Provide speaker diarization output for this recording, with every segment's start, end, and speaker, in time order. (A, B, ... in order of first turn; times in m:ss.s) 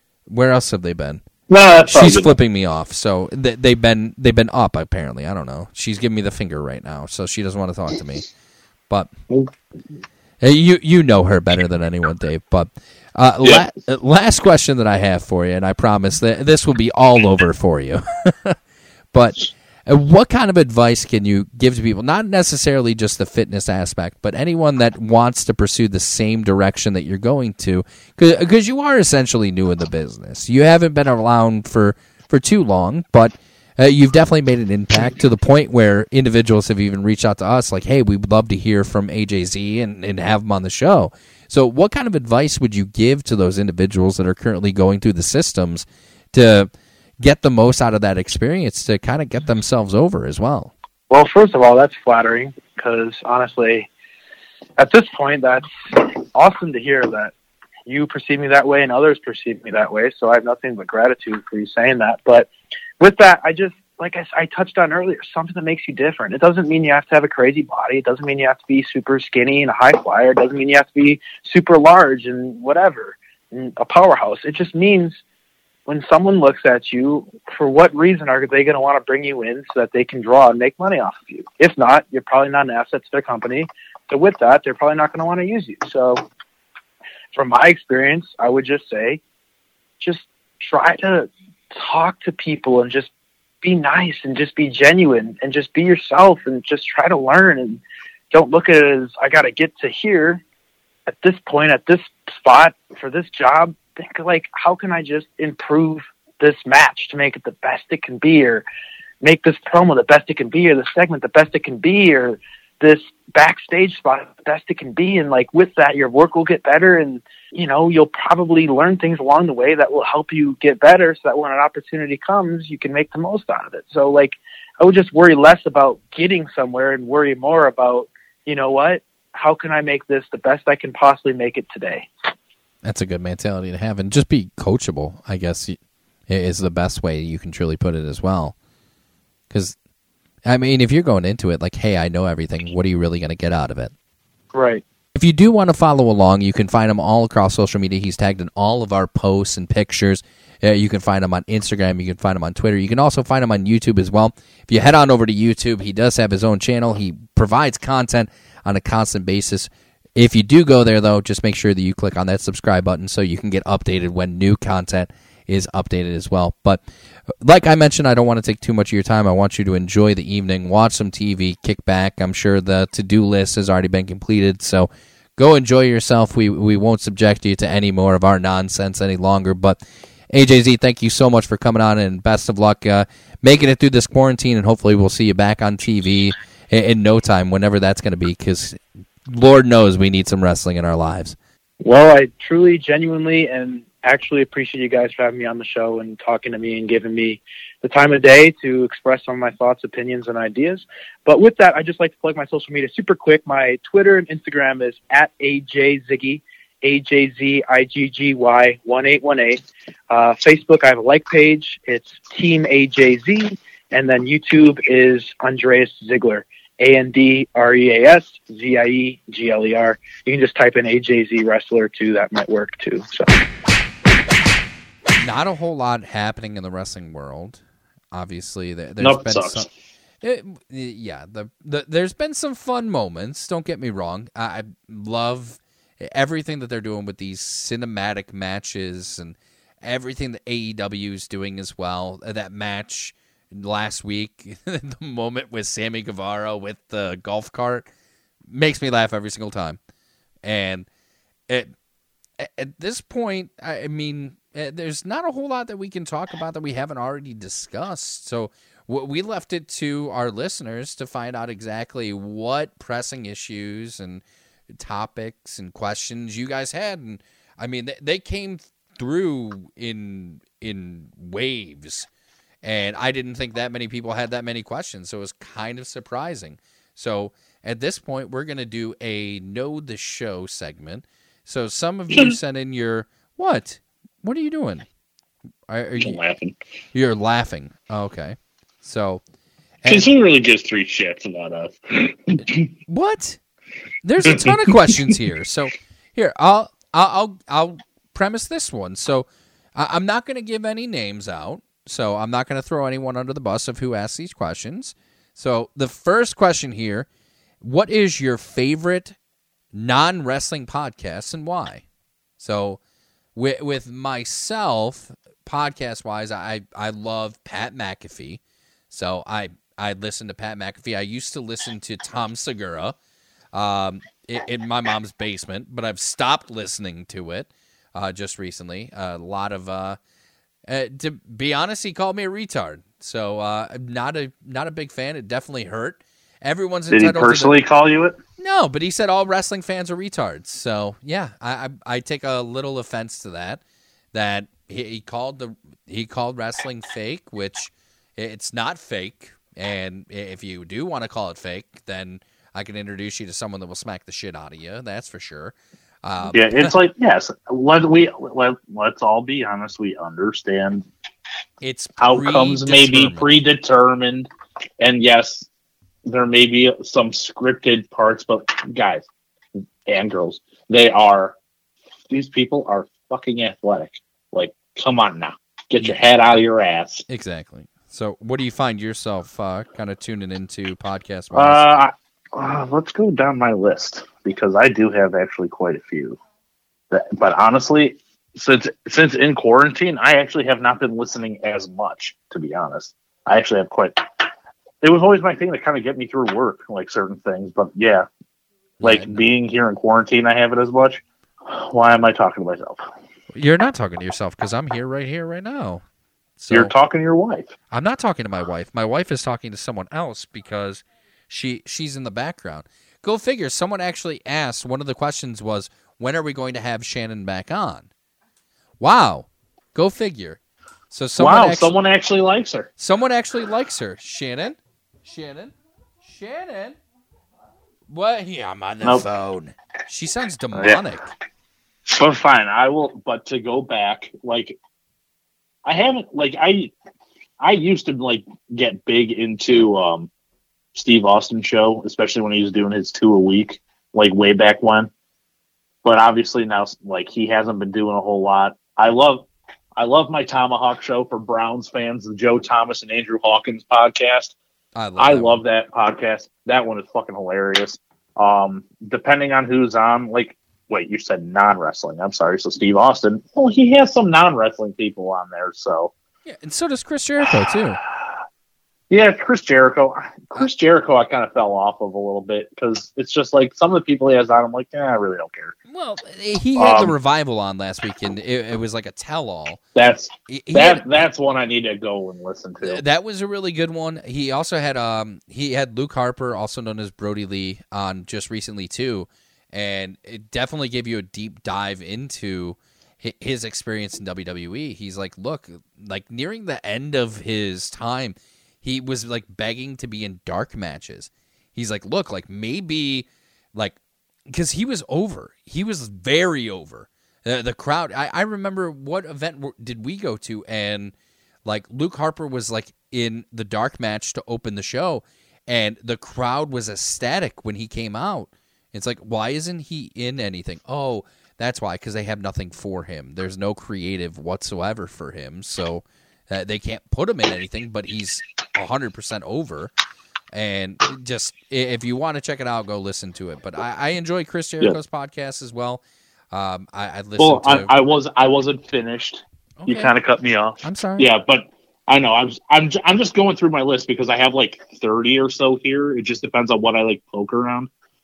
0:00.3-0:01.2 A
0:01.5-0:02.4 B
0:01.8-0:08.3 A
0:10.4-0:18.6 A
0:19.1-0:50.7 A
0:51.1-0:53.9 C
0:54.8-0:57.3 C
0:57.9-1:15.2 C
1:15.9-1:26.2 C
1:27.3-1:29.2 C
1:30.0-1:33.1 C
1:33.6-1:37.8 C
1:38.3-1:40.4 C
1:41.1-1:48.6 C
1:49.2-2:12.1 C
2:12.8-2:15.8 A
2:16.3-2:18.5 A
2:19.5-2:19.8 A
2:20.4-2:23.9 A
2:24.5-2:24.8 C
2:25.1-2:46.8 A
2:47.4-3:11.4 A
3:11.8-3:43.3 C
3:45.2-3:49.7 A
3:49.0-3:49.7 B
3:50.2-4:07.9 A
4:08.5-4:09.8 A
4:10.4-4:10.9 A
4:12.4-4:32.1 A
4:32.6-4:44.8 A
4:42.1-4:42.4 B
4:45.7-4:46.2 A
4:46.0-4:46.6 B
4:46.9-4:49.2 A
4:49.8-4:50.1 A
4:49.8-4:52.7 B
4:52.9-4:53.4 A
4:54.0-5:07.1 A
4:54.2-4:55.1 B
5:07.6-5:09.2 A
5:09.7-5:11.8 A
5:12.4-5:12.8 A
5:13.3-5:23.0 A
5:23.5-5:30.0 A
5:30.6-5:37.6 A
5:36.9-5:38.2 B
5:38.4-5:43.6 A
5:44.1-5:56.7 A
5:56.3-6:00.8 B
6:01.6-6:03.4 A
6:02.0-6:04.3 B
6:04.8-6:05.5 B
6:06.0-6:09.0 B
6:09.8-6:11.4 B
6:12.1-6:17.0 B
6:17.1-6:21.6 A
6:21.3-6:26.2 B
6:26.9-6:34.2 B
6:34.8-6:38.1 B
6:38.8-6:39.2 A
6:38.8-6:42.8 B
6:43.3-6:45.8 A
6:46.4-6:46.7 A
6:46.5-6:47.5 B
6:47.7-6:57.9 A
6:58.8-7:00.4 A
7:00.9-7:01.8 A
7:01.2-7:02.7 B
7:02.8-7:05.5 A
7:06.0-7:06.8 A
7:07.9-7:11.1 A
7:10.5-7:10.8 B
7:11.9-7:14.6 B
7:15.6-7:16.7 B
7:17.4-7:20.1 B
7:20.7-7:24.9 B
7:25.8-7:34.3 B
7:34.8-7:35.4 A
7:35.0-7:45.9 B
7:46.2-7:47.8 A
7:48.9-7:55.5 B
7:55.7-7:59.6 A
7:56.6-7:56.9 B
7:59.7-8:02.8 B
8:00.3-8:01.0 A
8:02.6-8:30.9 A
8:31.4-8:49.7 A
8:50.3-8:57.7 A
8:57.2-9:07.7 B
8:59.6-8:59.9 A
9:00.6-9:01.1 A